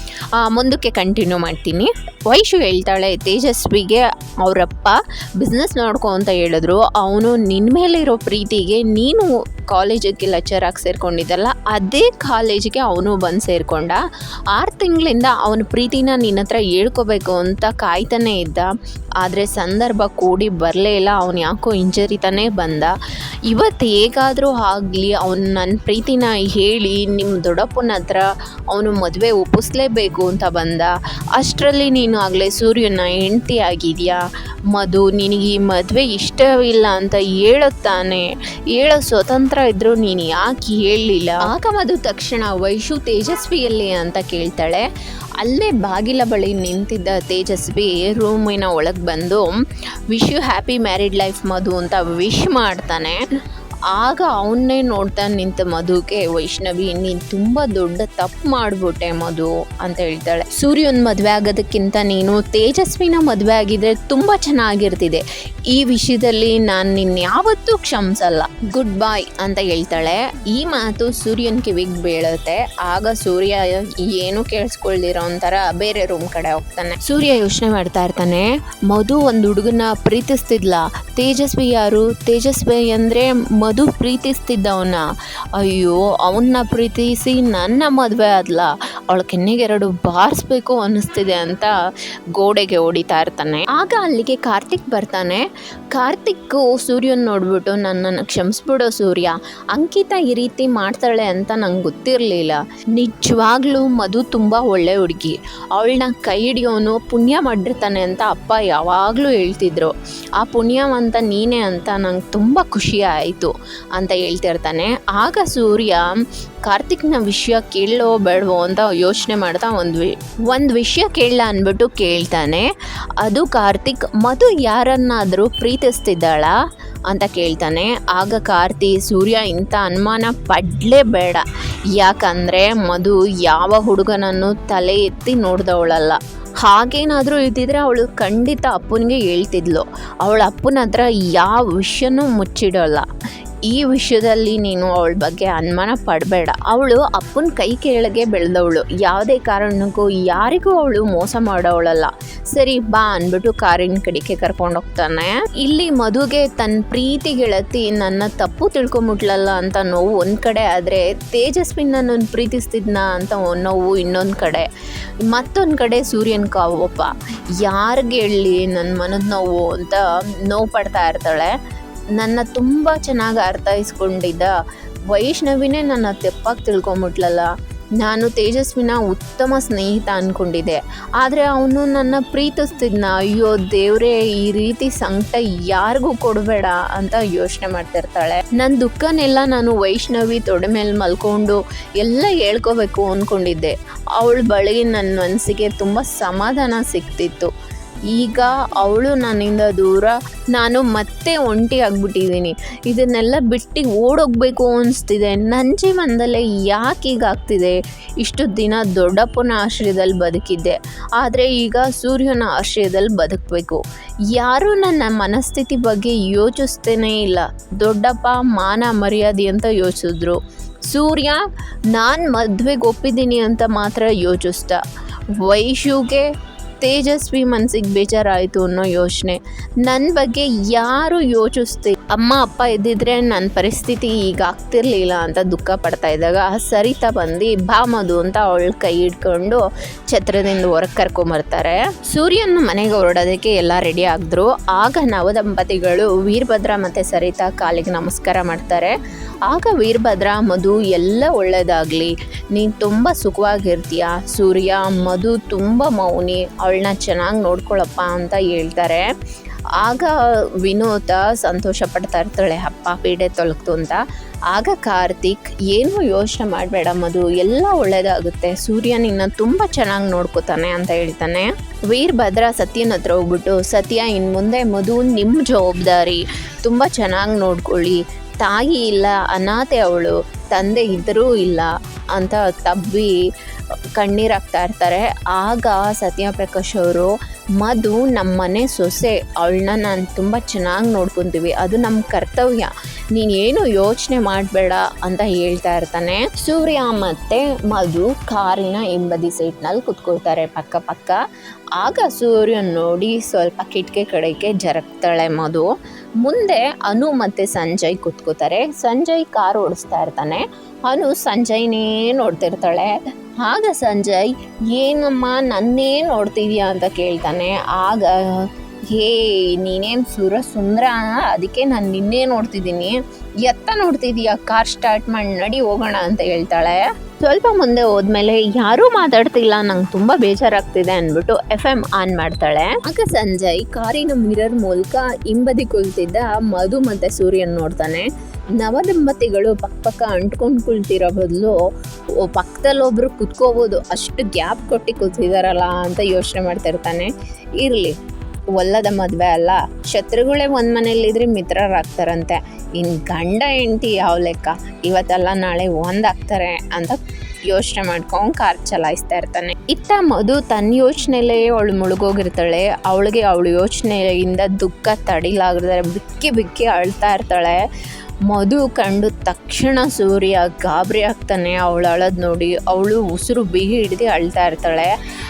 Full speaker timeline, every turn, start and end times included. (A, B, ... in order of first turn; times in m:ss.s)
0:00.4-0:14.0 A
0:14.5-0:18.7 A
0:19.2-0:22.9 A
0:23.5-0:34.2 A
0:34.7-0:44.8 A
0:45.4-0:49.5 A
0:50.1-0:53.2 A
0:53.9-1:25.0 A
1:25.6-1:31.7 A
1:32.4-1:35.4 A
1:35.9-1:56.0 A
1:56.7-2:02.7 A
2:03.2-2:06.5 A
2:07.1-2:11.4 A
2:12.0-2:23.1 A
2:23.7-2:44.6 A
2:45.3-2:47.1 A
2:47.6-2:51.5 A
2:52.2-2:54.5 A
2:55.1-2:57.5 A
2:58.0-3:17.5 A
3:18.1-3:33.8 A
3:34.3-3:40.4 A
3:40.9-3:41.4 A
3:41.9-3:44.8 A
3:45.4-3:46.2 A
3:46.8-4:08.9 A
4:09.5-4:19.0 A
4:19.8-4:20.1 A
4:20.6-4:24.0 A
4:24.5-4:43.2 A
4:44.0-5:01.2 A
5:01.8-5:05.6 A
5:06.2-5:18.1 A
5:18.9-5:38.1 A
5:38.6-5:41.6 A
5:42.2-5:47.9 A
5:48.5-5:57.0 A
5:57.5-6:07.6 A
6:08.3-6:14.9 A